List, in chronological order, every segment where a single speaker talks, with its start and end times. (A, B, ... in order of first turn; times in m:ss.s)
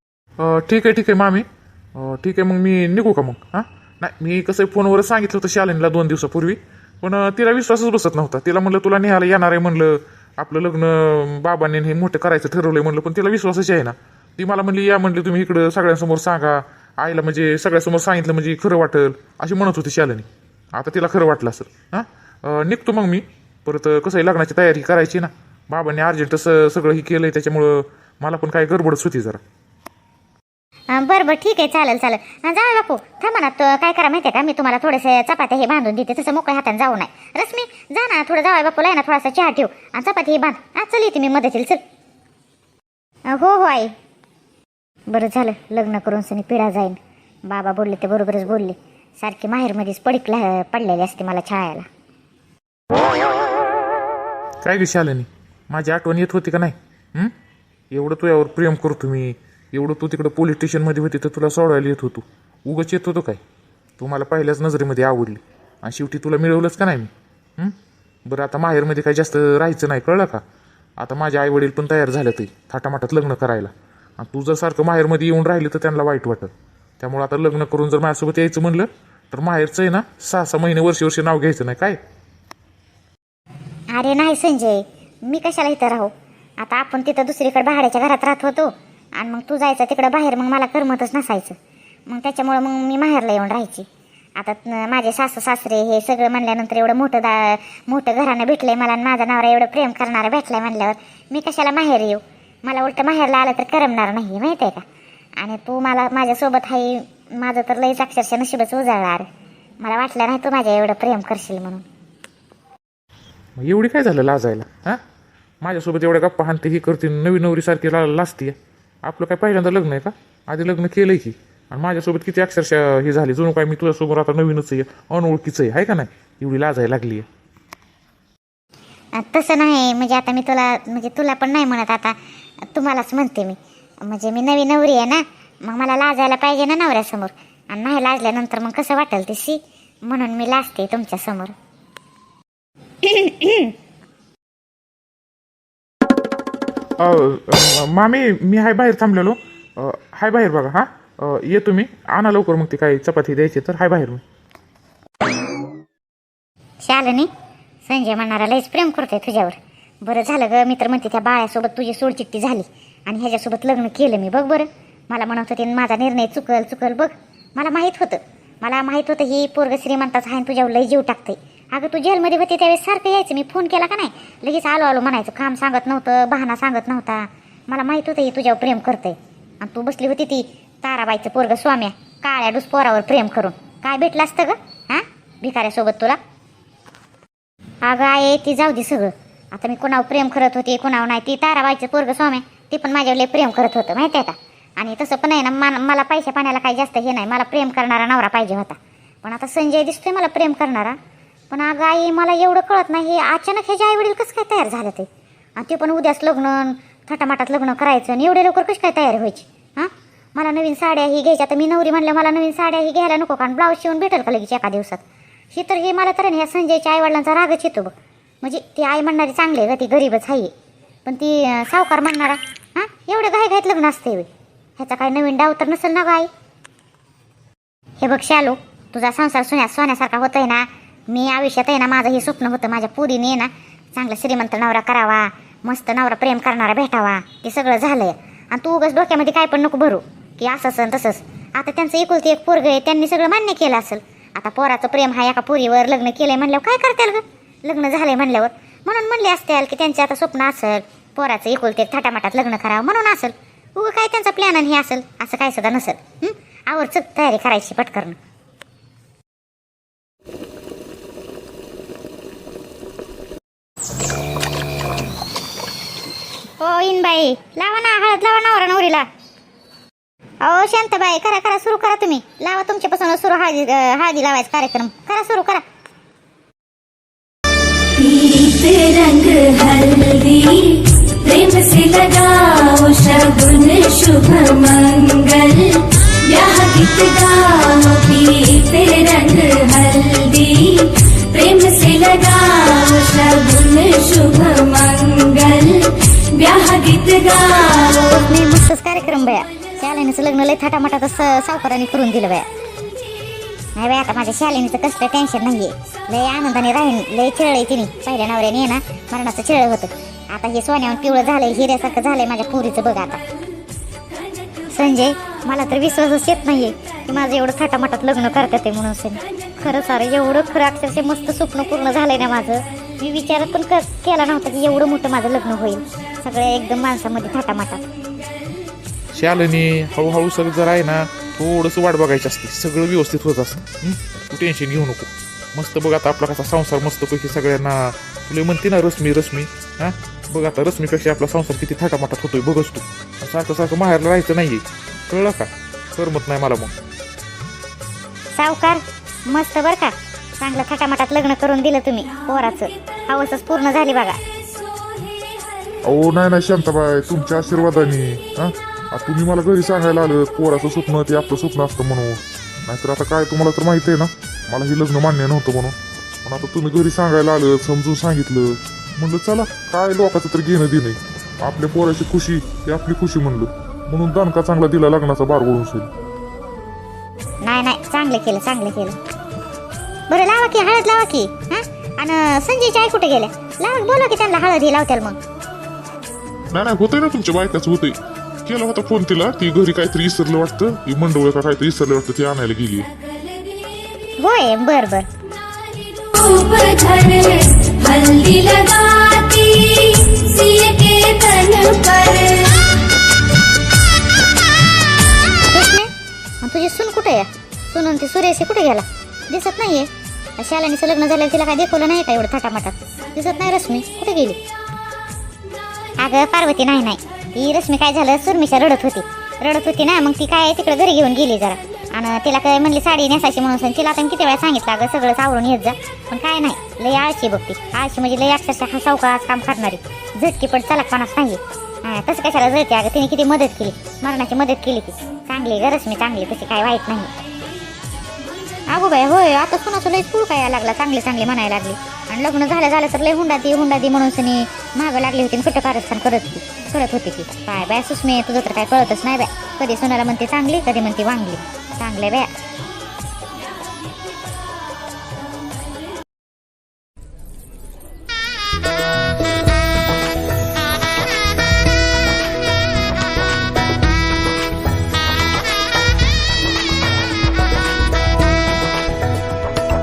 0:00.4-0:29.4 A
0:30.9-0:41.8 B
0:43.3-0:43.9 B
0:45.1-0:51.9 B
0:54.6-0:57.3 A
0:57.9-1:03.4 A
1:04.0-1:10.4 A
1:11.0-1:22.0 A
1:23.9-1:44.9 B
1:45.4-1:49.3 B
1:49.8-1:51.8 B
1:53.6-1:55.0 A
1:55.6-2:07.3 A
2:09.2-2:21.6 B
2:23.0-2:23.8 B
2:27.0-2:34.2 A
2:36.8-2:37.3 B
2:37.9-3:06.2 B
3:07.8-3:21.0 B
3:21.5-3:35.0 B
3:35.5-3:40.5 B
3:41.0-3:46.3 B
3:48.0-4:18.2 B
4:26.6-4:29.1 B
4:30.4-4:35.6 B
4:38.0-4:58.1 C
4:57.9-5:02.5 B
5:03.8-5:13.2 B
5:14.7-5:27.8 B
5:29.1-5:46.7 A
5:48.4-5:54.2 B
5:55.8-6:15.9 A
6:17.4-6:19.0 B
6:20.1-6:25.2 B
6:26.5-6:32.9 A
6:33.3-6:33.5 C
6:34.2-6:35.1 B
6:35.5-6:42.8 C
6:45.5-6:45.9 B
6:46.4-6:54.4 B
6:56.0-7:17.1 B
7:18.7-7:32.3 B